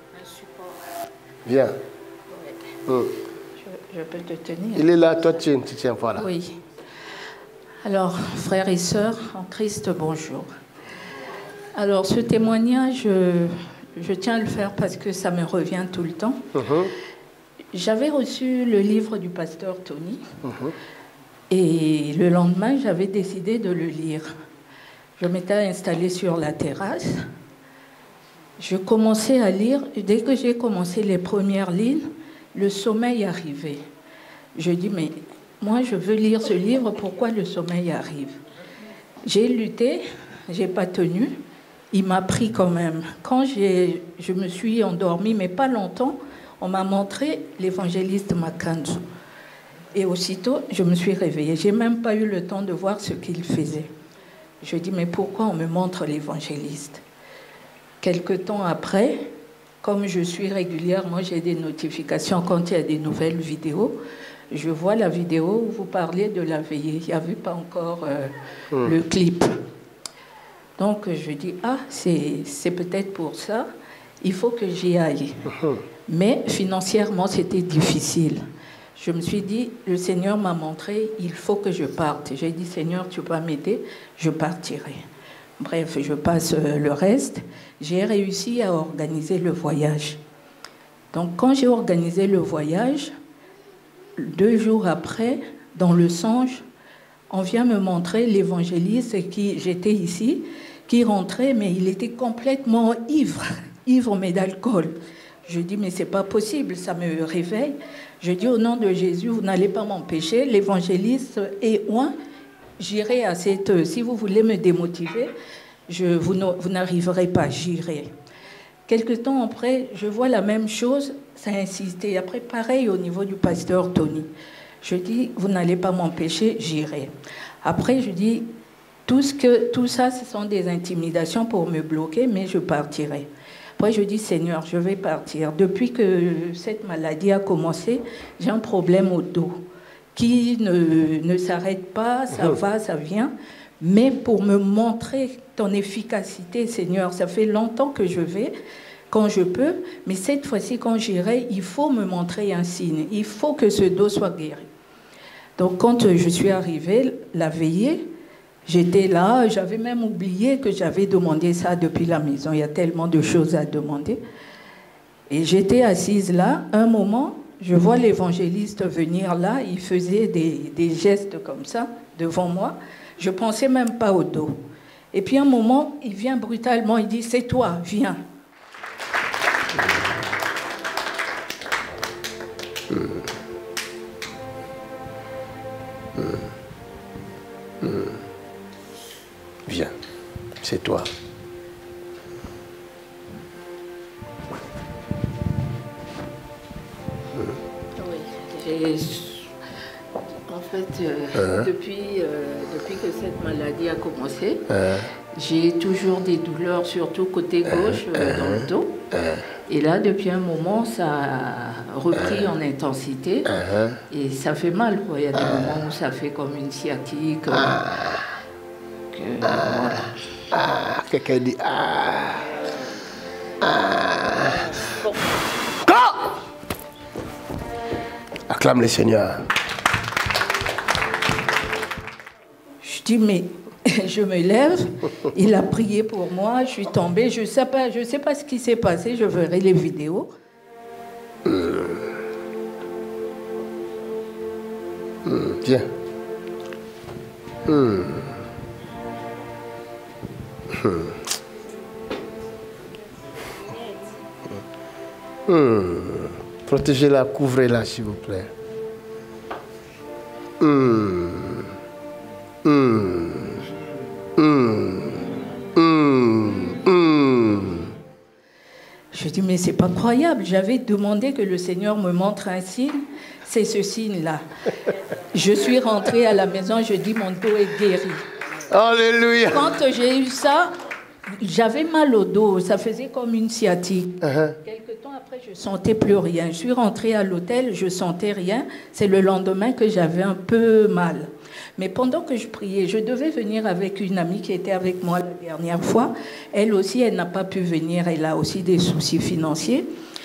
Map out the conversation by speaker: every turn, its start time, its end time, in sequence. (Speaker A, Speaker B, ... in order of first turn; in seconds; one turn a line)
Speaker A: 0.1-0.8
Speaker B: 1.4-1.8
Speaker A: 2.3-2.7
Speaker B: 2.9-3.1
Speaker A: 3.6-4.9
Speaker B: 4.7-6.3
Speaker A: 6.2-6.6
Speaker A: 7.8-10.5
Speaker A: 11.7-16.5
Speaker B: 16.5-16.9
Speaker A: 17.7-20.3
Speaker B: 20.4-20.7
Speaker A: 21.5-24.3
Speaker A: 25.2-27.3
Speaker A: 28.6-33.8
Speaker A: 34.5-38.4
Speaker A: 39.2-41.4
Speaker A: 41.9-49.0
Speaker A: 49.9-53.9
Speaker A: 54.6-57.0
Speaker A: 58.0-59.3
Speaker A: 59.8-64.0
Speaker A: 64.5-69.5
Speaker A: 70.8-73.7
Speaker A: 74.2-78.4
Speaker A: 79.0-85.0
Speaker A: 85.6-90.2
Speaker A: 91.1-93.1
Speaker A: 94.2-96.7
Speaker A: 97.3-112.1
Speaker A: 112.8-115.3
Speaker A: 115.9-118.1
Speaker A: 118.9-124.3
Speaker A: 124.8-127.1
Speaker A: 127.6-128.5
Speaker A: 129.1-139.6
Speaker A: 140.1-148.5
Speaker A: 149.1-154.7
Speaker A: 155.6-158.1
Speaker A: 158.6-164.2
Speaker A: 165.3-174.6
Speaker A: 175.1-178.2
Speaker B: 182.9-183.2
Speaker B: 187.8-188.2
Speaker B: 189.7-189.9
Speaker B: 190.6-191.1
Speaker A: 198.0-199.6
Speaker A: 200.4-204.7
Speaker B: 201.3-201.7
Speaker B: 204.7-205.1
Speaker A: 205.3-208.9
Speaker B: 209.1-209.4
Speaker A: 209.7-218.2
Speaker B: 213.5-214.0
Speaker A: 219.1-220.1
Speaker B: 220.5-222.5
Speaker B: 223.6-226.3
Speaker B: 228.5-229.5
Speaker A: 232.8-240.3
Speaker B: 241.4-242.1
Speaker B: 245.2-245.9
Speaker B: 247.7-248.4
Speaker B: 250.7-251.2
Speaker B: 255.4-258.5
Speaker B: 260.6-261.7
Speaker B: 262.6-263.6
Speaker B: 264.4-267.9
Speaker A: 269.1-278.3
Speaker B: 278.7-279.7
Speaker A: 279.5-280.7
Speaker A: 281.3-299.9
Speaker B: 284.2-284.5